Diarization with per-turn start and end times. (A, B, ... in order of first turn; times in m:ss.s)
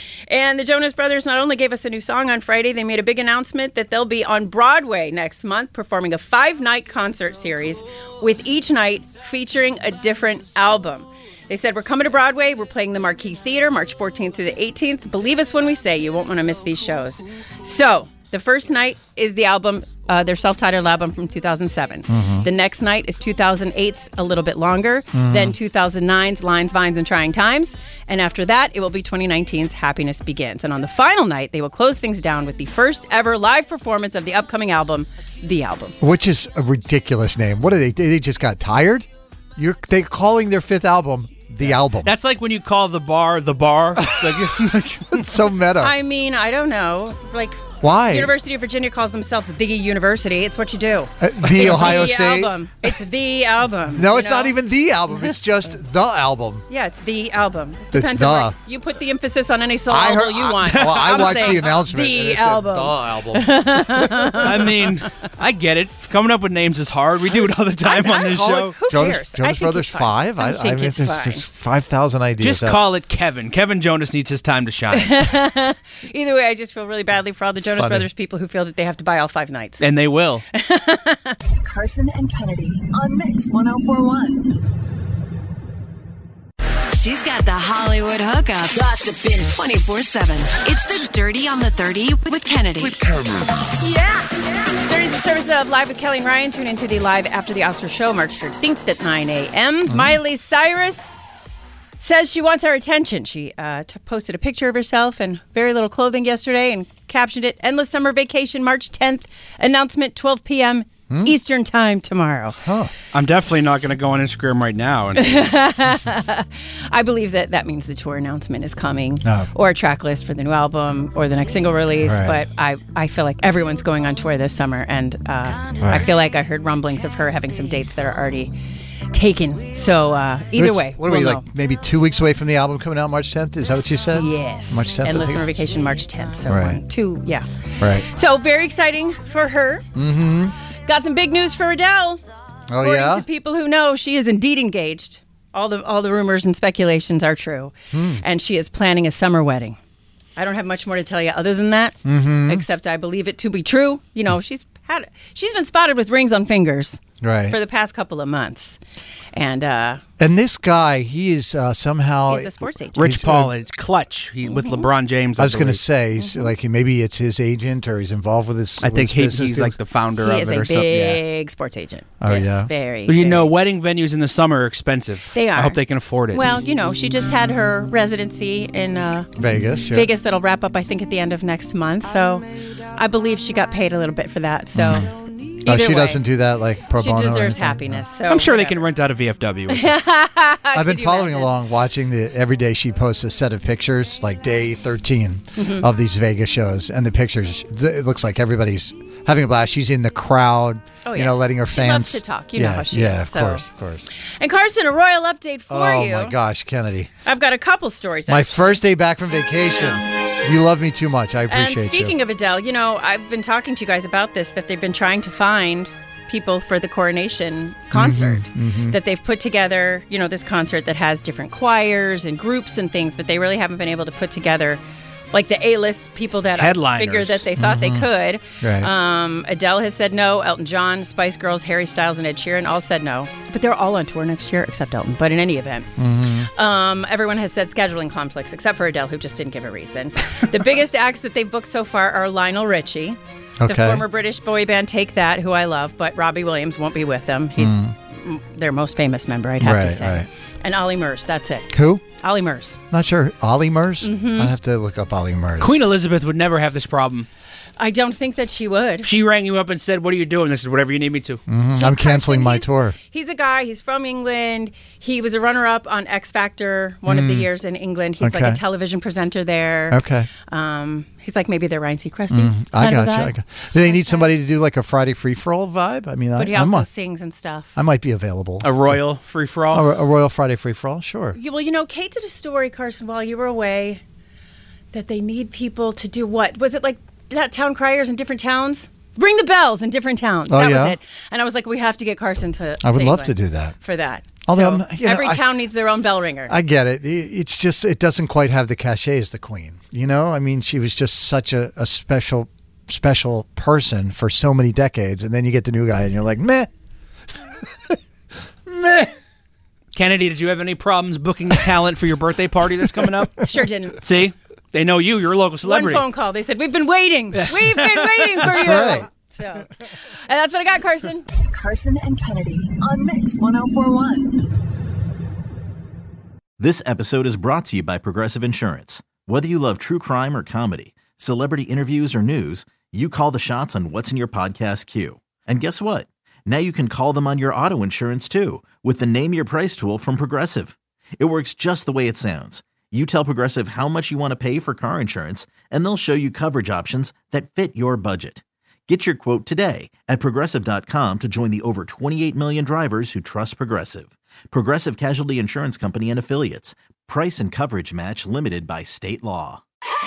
0:00.3-0:36.0 A
0:22.1-0:22.4 B
0:25.1-0:25.6 B
0:36.0-0:42.1 B
0:41.6-0:45.2 C
0:44.0-0:44.5 B
0:45.1-0:45.9 B
0:45.8-0:54.6 A
0:47.8-0:48.3 B
0:51.2-0:52.9 B
0:53.9-0:56.6 B
0:56.7-1:04.6 A
0:57.9-0:58.6 B
0:59.9-1:04.5 B
1:00.8-1:01.5 C
1:04.4-1:08.7 C
1:07.8-1:11.4 A
1:08.1-1:12.8 B
1:12.4-1:15.3 C
1:14.9-1:19.9 A
1:17.6-1:18.1 B
1:19.8-1:20.4 C
1:20.5-1:21.4 A
1:21.6-1:24.4 D
1:26.9-1:28.8 E
1:29.5-1:33.0 E
1:33.8-1:41.1 A
1:39.9-1:40.2 B
1:42.0-1:52.6 A
1:51.1-1:51.3 B
1:52.6-1:52.9 B
1:53.1-1:55.5 C
1:55.2-2:08.5 A
1:59.2-1:59.5 B
2:02.0-2:02.4 B
2:05.8-2:06.1 B
2:09.1-2:11.4 A
2:10.5-2:15.5 B
2:14.1-2:19.9 A
2:16.4-2:16.8 B
2:17.8-2:18.0 B
2:19.9-2:20.5 B
2:20.8-2:22.2 A
2:22.7-2:23.2 B
2:22.8-2:29.8 A
2:27.9-2:28.2 B
2:30.4-2:38.8 A
2:32.0-2:32.6 B
2:37.2-2:37.6 B
2:39.3-2:40.0 A
2:40.2-2:43.5 B
2:42.3-2:43.0 A
2:43.0-2:45.8 C
2:44.5-2:44.8 A
2:45.4-2:49.7 B
2:46.2-2:46.5 A
2:48.8-2:51.2 C
2:50.2-2:53.5 A
2:52.2-2:52.7 B
2:53.1-2:56.6 C
2:55.3-2:59.3 A
2:59.4-3:00.1 B
2:59.9-3:06.2 A
3:04.7-3:05.1 B
3:05.6-3:08.0 B
3:07.0-3:08.8 A
3:08.3-3:10.0 C
3:09.7-3:11.5 A
3:10.7-3:24.1 B
3:15.6-3:15.8 A
3:21.0-3:23.6 A
3:24.2-3:26.4 A
3:25.7-3:27.1 B
3:27.2-3:28.8 A
3:28.3-3:32.2 B
3:31.5-4:12.8 A
3:37.9-3:39.0 B
3:46.5-3:47.4 C
3:47.6-3:48.9 B
3:56.0-3:56.5 B
4:03.6-4:04.0 B
4:07.6-4:07.9 B
4:09.6-4:10.3 B
4:11.7-4:12.0 B
4:12.9-4:15.8 B
4:14.0-4:14.5 A
4:15.6-4:17.3 C
4:17.8-4:19.1 A
4:19.0-4:21.4 C
4:21.5-4:23.0 B
4:21.8-4:34.3 A
4:27.0-4:27.5 B
4:28.2-4:28.6 B
4:29.9-4:30.3 B
4:32.3-4:36.9 B
4:36.4-4:37.7 A
4:37.7-4:39.0 B
4:38.6-4:39.8 C
4:39.7-4:41.4 B
4:41.3-4:44.0 A
4:44.9-4:56.5 A
4:50.5-4:51.0 B
4:52.8-4:53.8 B
4:54.4-4:55.6 B
4:56.5-5:06.7 B
5:08.7-5:09.1 B
5:09.9-5:13.3 C
5:13.4-5:14.0 A
5:14.0-5:16.0 C
5:15.6-5:21.3 A
5:17.3-5:18.5 C
5:18.4-5:19.1 B
5:26.6-5:59.6 F